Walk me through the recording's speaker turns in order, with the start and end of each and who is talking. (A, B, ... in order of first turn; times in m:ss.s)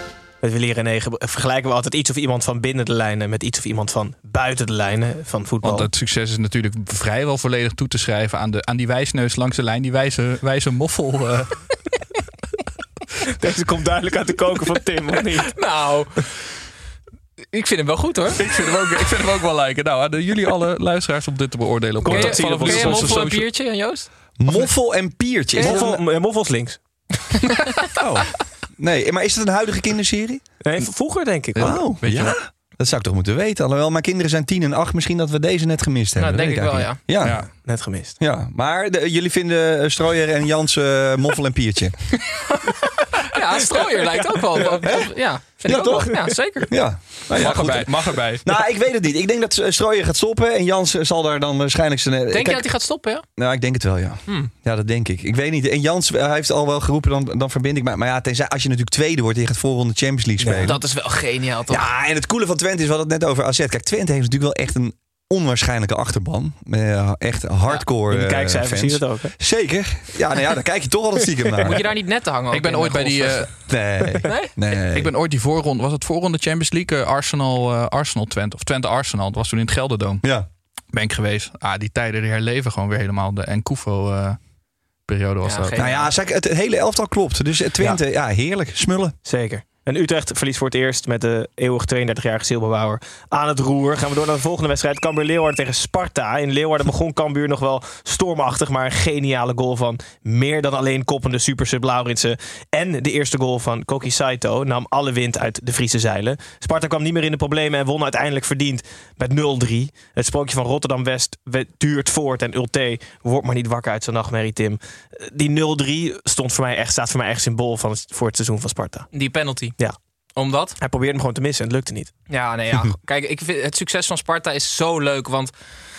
0:00.4-0:05.9 A
0:05.6-0:11.7 B
0:13.4-0:15.6 A
0:15.6-0:16.3 C
0:17.5-0:18.4 C
0:18.4-0:23.4 B
0:22.0-0:23.3 A
0:22.1-0:24.7 C
0:24.4-0:26.0 D
0:25.5-0:25.9 C
0:25.6-0:26.8 A
0:28.0-0:30.4 D
0:30.6-0:31.8 A
0:31.5-0:32.4 B
0:31.6-0:37.6 D
0:36.2-0:37.0 C
0:37.2-0:37.5 B
0:37.6-0:38.2 A
0:38.2-0:42.1 D
0:43.3-0:46.7 C
0:44.1-0:44.9 A
0:44.8-0:52.7 D
0:47.4-0:48.5 B
0:52.3-0:53.2 C
0:53.4-1:00.8 D
1:00.4-1:00.8 A
1:00.4-1:01.9 C
1:01.7-1:11.8 D
1:08.1-1:09.3 A
1:11.6-1:13.5 C
1:12.5-1:13.5 B
1:13.7-1:15.1 D
1:14.3-1:14.5 C
1:14.9-1:20.2 B
1:20.9-1:24.4 B
1:25.1-1:25.9 B
1:25.4-1:26.1 C
1:25.8-1:29.2 D
1:29.2-1:59.1 A
1:59.1-1:59.8 C
2:00.4-2:00.8 C
2:00.8-2:02.1 A
2:02.3-2:05.5 C